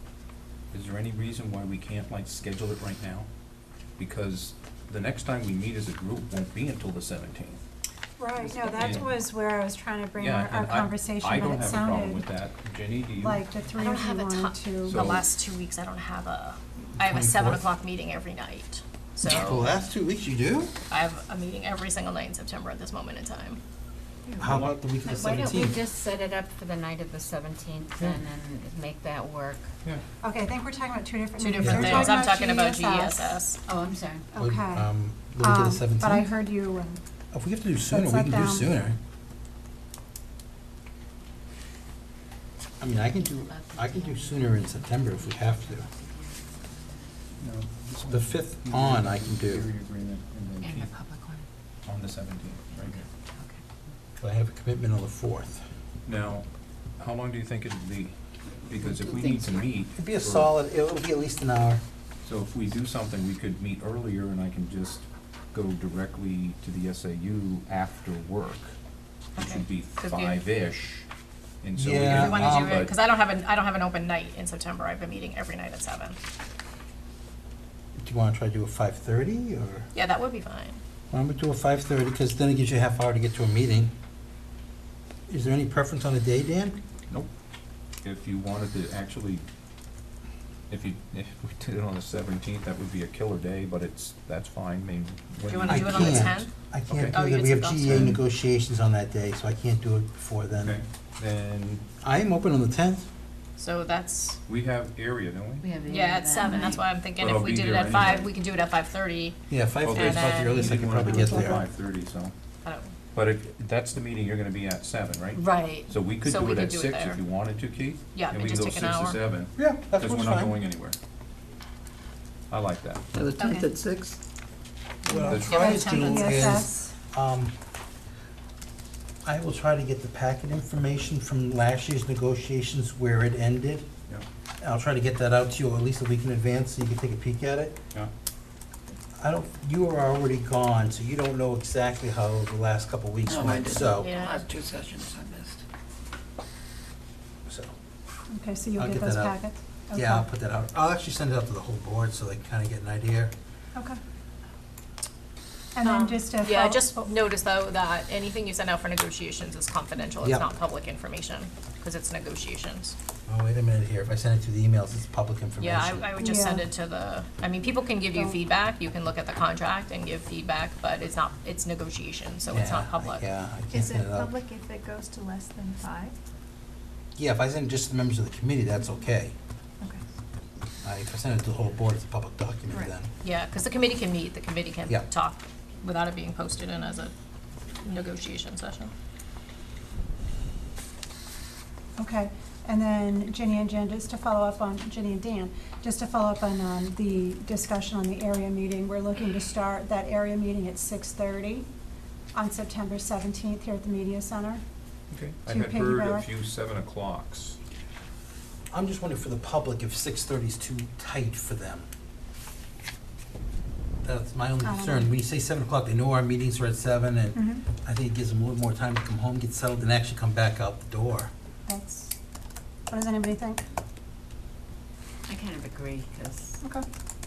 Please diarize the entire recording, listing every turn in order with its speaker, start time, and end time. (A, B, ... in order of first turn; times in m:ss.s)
0:00.7-0:03.3 A
0:04.0-0:07.6 A
0:08.2-0:12.2 B
0:08.5-0:09.0 C
0:08.8-0:09.1 A
0:10.2-0:13.4 A
0:13.2-0:15.0 B
0:13.8-0:19.7 C
0:14.9-0:15.3 A
0:17.0-0:17.6 D
0:19.2-0:20.7 D
0:20.9-0:23.6 C
0:24.3-0:24.8 A
0:24.4-0:25.8 D
0:25.0-0:29.7 E
0:30.2-0:33.4 B
0:31.4-0:33.6 C
0:31.6-0:32.2 D
0:33.6-0:34.3 E
0:34.3-0:34.9 B
0:34.4-0:36.3 D
0:35.4-0:37.0 B
0:37.3-0:39.0 D
0:37.9-0:38.7 B
0:42.8-0:45.9 D
0:43.0-0:47.1 E
0:47.4-0:50.9 A
0:48.1-0:49.7 D
0:50.6-0:51.5 E
0:51.8-0:53.0 A
0:52.7-0:53.6 E
0:54.2-0:55.6 D
0:56.0-0:56.4 A
0:57.0-0:58.2 A
0:58.7-1:00.5 A
0:59.9-1:01.8 D
1:02.2-1:08.8 A
1:09.4-1:10.4 C
1:09.4-1:11.0 A
1:11.6-1:12.9 A
1:11.8-1:12.8 D
1:12.1-1:16.2 C
1:18.0-1:19.9 D
1:19.9-1:20.8 C
1:21.1-1:23.9 D
1:25.3-1:26.8 D
1:28.0-1:29.4 A
1:30.7-1:36.3 A
1:35.4-1:36.5 C
1:35.7-1:40.8 D
1:36.9-1:37.2 A
1:37.1-1:38.1 C
1:37.8-1:38.2 A
1:40.6-1:41.8 A
1:42.0-1:43.0 D
1:43.6-1:44.4 C
1:44.5-1:45.7 A
1:45.6-1:46.8 E
1:45.9-1:51.1 C
1:47.2-1:48.3 A
1:49.5-1:51.6 D
1:49.8-1:52.3 A
1:52.6-1:52.9 C
1:53.1-2:01.0 A
1:55.4-1:57.2 C
1:58.1-1:59.2 C
1:59.6-2:00.5 D
2:02.5-2:03.0 A
2:03.1-2:04.2 F
2:03.4-2:03.6 B
2:05.0-2:07.5 D
2:05.2-2:06.6 C
2:05.3-2:05.7 A
2:05.4-2:06.9 B
2:09.2-2:13.9 D
2:14.6-2:17.8 D
2:19.2-2:24.1 D
2:23.3-2:25.6 F
2:23.9-2:24.4 C
2:27.5-2:27.7 D
2:28.3-2:30.2 B
2:28.8-2:29.4 D
2:29.9-2:33.3 D
2:35.7-2:37.1 B
2:35.8-2:42.9 C
2:40.2-2:40.5 D
2:43.3-2:46.1 D
2:45.6-2:53.2 C
2:46.2-2:46.7 B
2:52.5-2:54.3 D
2:53.7-2:56.1 G
2:57.2-2:59.3 D
3:00.8-3:03.1 D
3:03.2-3:07.1 C
3:07.8-3:08.9 C
3:12.0-3:21.6 B
3:22.3-3:24.6 B
3:25.1-3:27.6 A
3:25.4-3:26.3 B
3:28.7-3:31.8 D
3:34.0-3:41.3 D
3:34.6-3:35.1 B
3:37.3-3:37.6 B
3:41.6-3:42.1 B
3:42.9-3:43.6 B
3:45.3-3:46.6 E